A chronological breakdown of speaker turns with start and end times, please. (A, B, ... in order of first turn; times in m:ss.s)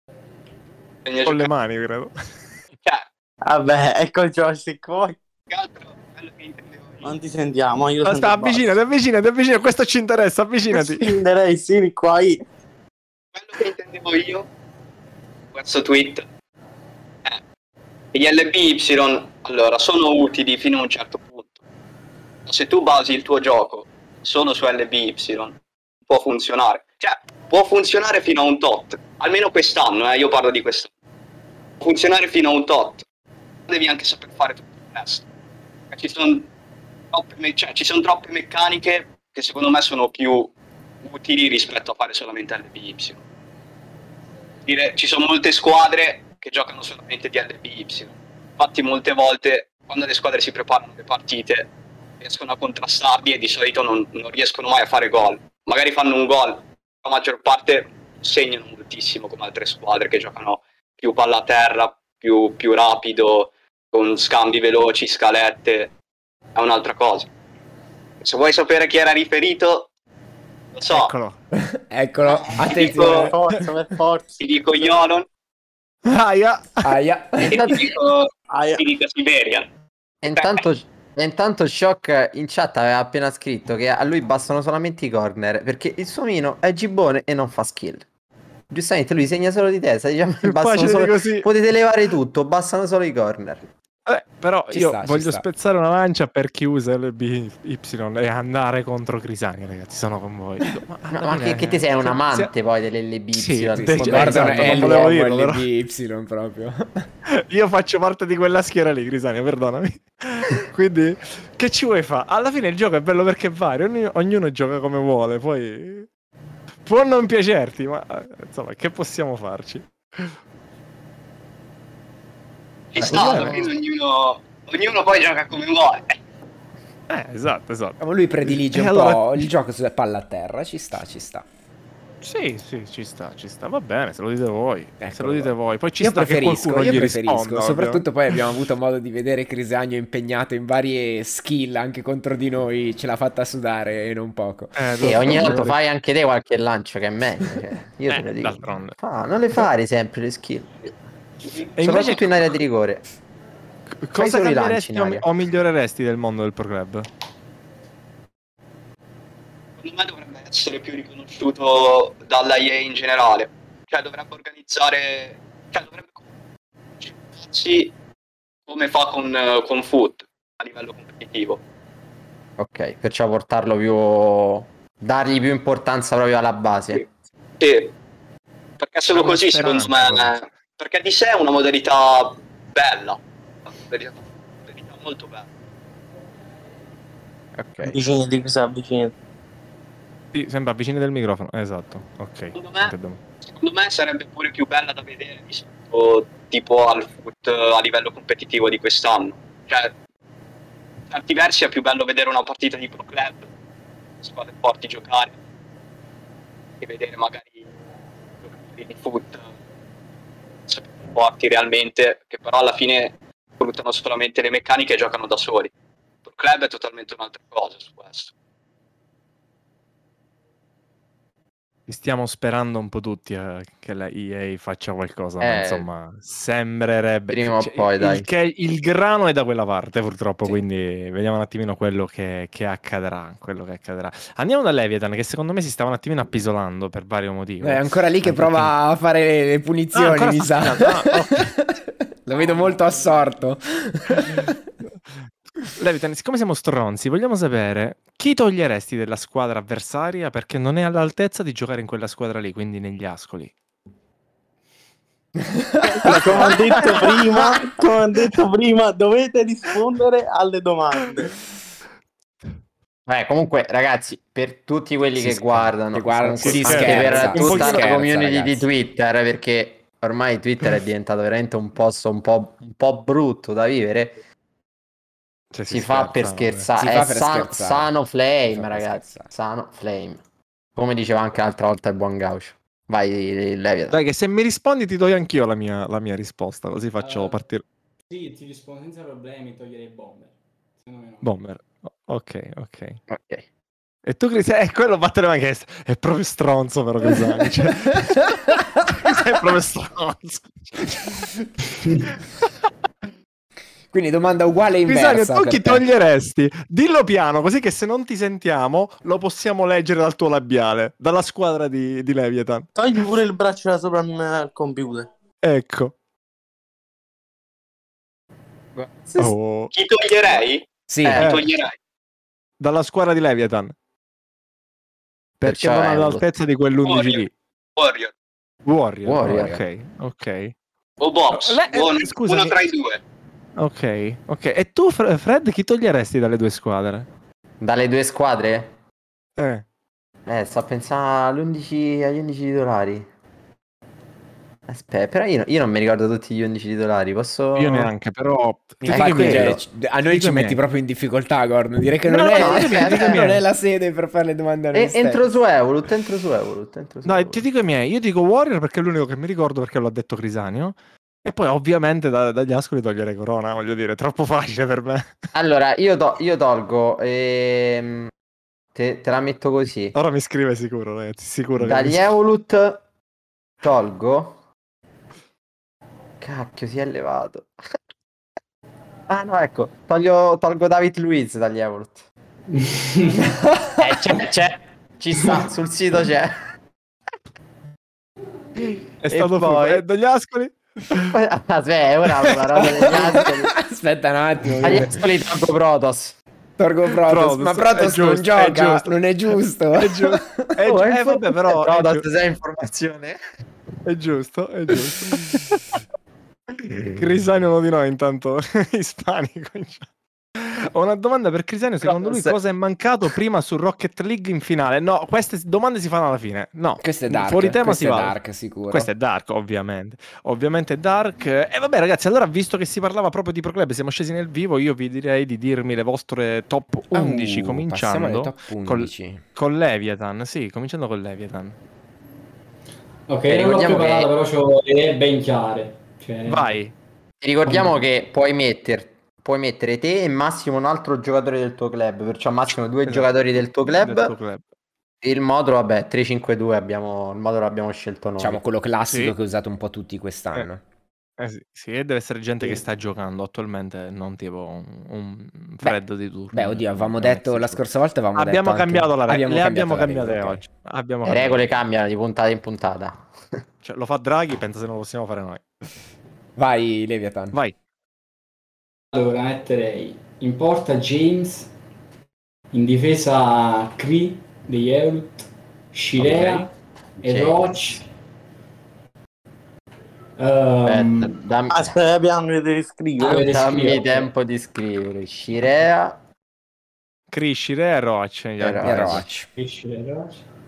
0:01.0-0:01.5 A
0:01.2-0:02.1 B
0:03.4-0:05.2 C
0:05.5-0:07.2 A
0:07.0-0:08.8 C
0:08.0-0:11.2 B
0:10.7-0:12.4 C
0:13.4-0:14.5 A
0:15.5-0:16.2 A
0:18.1-0:21.6 A
0:22.5-0:30.9 A
0:31.8-0:33.0 A
0:33.7-0:35.2 A
0:35.9-0:36.5 A
0:37.1-0:40.5 A
0:41.0-0:43.2 A
0:44.7-1:05.9 A
1:06.6-1:07.3 A
1:08.2-1:09.9 A
1:10.8-1:11.1 A
1:10.9-1:11.4 B
1:11.5-1:13.3 D
1:12.6-1:13.3 A
1:12.6-1:14.4 C
1:14.4-1:15.3 A
1:16.0-1:16.9 B
1:16.8-1:17.7 D
1:17.4-1:19.7 A
1:17.5-1:17.8 E
1:18.5-1:18.8 C
1:20.2-1:28.0 E
1:20.4-1:20.6 A
1:28.7-1:33.6 E
1:30.4-1:31.5 B
1:34.1-1:42.5 B
1:34.7-1:35.5 D
1:41.1-1:45.1 E
1:43.4-1:45.7 B
1:43.8-1:47.1 D
1:47.3-1:56.1 B
1:56.8-2:00.4 B
2:02.9-2:06.2 A
2:03.0-2:03.7 B
2:03.0-2:03.6 E
2:07.1-2:09.5 B
2:08.0-2:11.5 D
2:12.2-2:18.0 B
2:15.0-2:25.7 D
2:24.8-2:25.8 B
2:25.0-2:30.7 E
2:28.1-2:29.0 B
2:31.8-2:32.4 B
2:31.8-2:33.0 E
2:34.0-2:37.1 B
2:34.2-2:35.3 E
2:39.8-2:46.2 A
2:47.0-2:47.9 A
2:48.7-2:51.6 A
2:52.6-2:57.0 E
2:57.6-2:57.9 A
2:58.8-3:05.5 A
2:59.1-3:00.4 B
3:07.6-3:07.9 B
3:07.8-3:09.1 C
3:10.3-3:13.2 B
3:12.6-3:12.9 A
3:13.6-3:19.9 A
3:21.1-3:23.5 A
3:24.2-3:25.4 A
3:26.8-3:27.7 A
3:28.4-3:29.5 A
3:30.7-3:35.7 A
3:36.2-3:38.3 A
3:41.9-3:58.7 B
3:45.4-3:45.9 E
3:47.3-3:48.3 E
3:57.6-4:04.6 D
3:59.9-4:01.5 B
4:02.5-4:03.1 F
4:05.7-4:13.5 B
4:15.8-4:17.9 B
4:16.0-4:21.4 C
4:23.1-4:34.2 E
4:25.2-4:28.7 D
4:26.4-4:28.0 B
4:35.5-4:36.7 B
4:35.7-4:40.2 E
4:36.8-4:37.9 D
4:38.5-4:39.3 D
4:40.8-4:44.0 E
4:43.9-4:47.6 B
4:47.0-4:47.4 F
4:48.1-4:51.3 F
4:51.2-4:53.0 B
4:53.1-4:53.4 E
4:54.0-5:01.3 B
5:03.9-5:05.8 D
5:04.9-5:12.7 B
5:12.8-5:15.1 C
5:15.4-5:15.9 B
5:18.8-5:19.4 E
5:19.2-5:19.7 B
5:19.7-5:21.7 A
5:20.9-5:21.3 D
5:21.0-5:21.4 E
5:21.2-5:21.5 B
5:22.6-5:23.7 B
5:25.4-5:27.3 B
5:25.4-5:26.3 E
5:26.8-5:28.1 A
5:28.6-5:30.5 B
5:29.0-5:29.6 E
5:29.3-5:29.6 D
5:31.0-5:33.0 A
5:31.3-5:32.6 B
5:33.6-5:37.1 B
5:37.6-5:38.7 E
5:39.4-5:39.6 B
5:40.3-5:43.1 E
5:44.7-5:47.9 E
5:47.6-5:50.6 B
5:48.8-5:55.4 D
5:48.9-5:49.5 E
5:52.1-5:53.4 B
5:52.3-5:53.2 E
5:54.7-5:57.4 E
5:57.0-6:05.1 B
6:05.3-6:08.1 E
6:08.8-6:10.0 E
6:10.0-6:12.1 B
6:11.6-6:12.8 E
6:13.6-6:14.4 E
6:16.2-6:17.5 E
6:19.1-6:22.0 E
6:22.5-6:23.3 F
6:23.4-6:24.2 D
6:23.8-6:26.4 E
6:29.0-6:31.2 B
6:29.1-6:29.8 E
6:31.1-6:33.6 E
6:32.1-6:32.7 B
6:32.6-6:35.0 D
6:34.6-6:36.2 E
6:36.6-6:40.5 D
6:37.0-6:38.9 B
6:39.8-6:42.0 B
6:40.6-6:43.2 E
6:43.8-6:45.8 B
6:46.6-6:58.2 B
6:51.8-6:52.3 E
6:56.8-6:58.9 D
6:58.7-7:11.6 B
7:06.9-7:09.2 D
7:13.1-7:16.5 F
7:13.3-7:14.1 E
7:16.3-7:16.7 B
7:17.2-7:24.2 E
7:22.9-7:24.4 B
7:25.0-7:28.4 E
7:28.2-7:30.6 D
7:31.2-7:37.6 B
7:36.3-7:40.5 D
7:38.1-7:41.5 B
7:41.0-7:43.1 E
7:43.6-7:45.5 B
7:46.4-7:47.4 D
7:48.9-7:51.5 F
7:52.5-7:57.9 F
7:56.0-7:56.4 B
7:57.0-7:57.8 E
8:00.2-8:01.1 F
8:00.7-8:01.8 E
8:01.5-8:03.3 C
8:03.0-8:04.1 F
8:03.2-8:06.0 E
8:07.1-8:09.0 B
8:08.4-8:09.0 E
8:08.6-8:09.3 D
8:09.4-8:10.2 F